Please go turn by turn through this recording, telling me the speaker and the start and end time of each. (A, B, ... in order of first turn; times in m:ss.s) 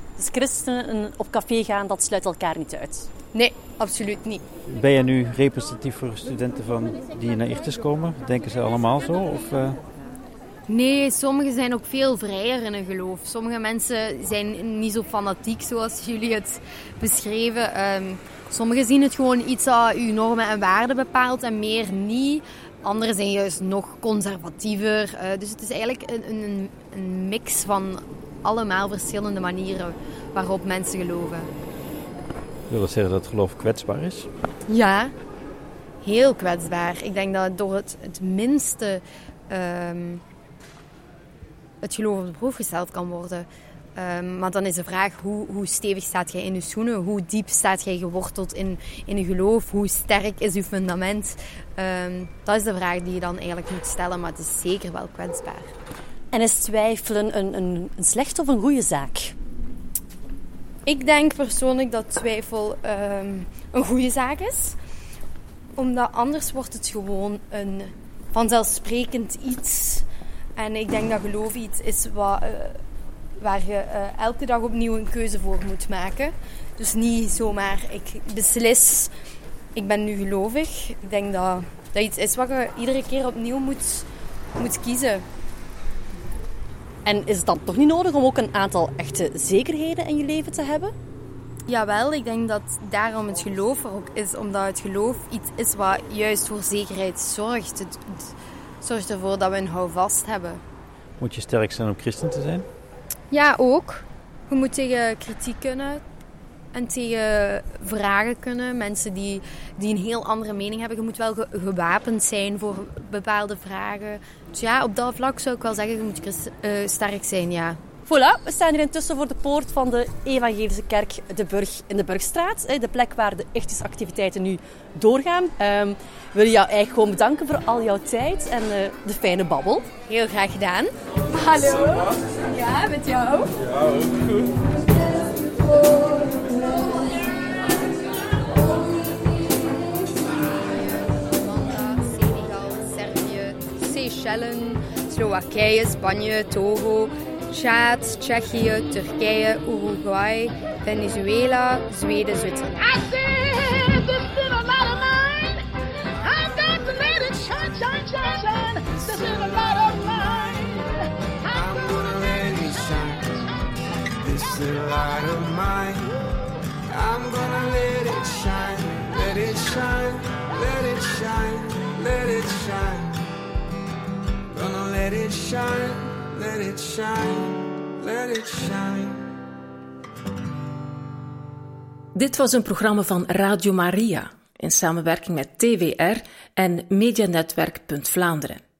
0:00.2-0:03.1 A
0:03.3-0:04.4 B
0:04.7-0:09.8 C
0:10.7-0:31.5 B
0:32.7-0:34.3 C
0:34.7-0:35.1 B
0:36.0-0:40.2 B
0:41.8-0:55.7 B
0:56.3-0:59.3 A
1:00.8-1:04.8 B
1:05.8-1:10.0 B
1:10.6-1:12.8 B
1:13.4-1:19.1 B
1:19.7-1:25.2 B
1:27.0-1:30.9 A
1:31.7-1:38.3 B
1:38.8-1:40.6 B
1:41.2-1:42.7 C
1:43.3-1:46.0 B
1:46.7-1:57.8 B
1:58.1-2:09.9 A
2:10.1-2:13.5 B
2:13.6-2:14.5 D
2:20.3-2:32.9 B
2:32.8-2:35.6 E
2:36.2-2:40.7 E
2:41.4-2:42.0 E
2:41.5-2:43.1 D
2:44.2-2:46.0 D
2:46.9-2:53.1 D
2:54.5-2:59.3 D
3:02.1-3:08.6 F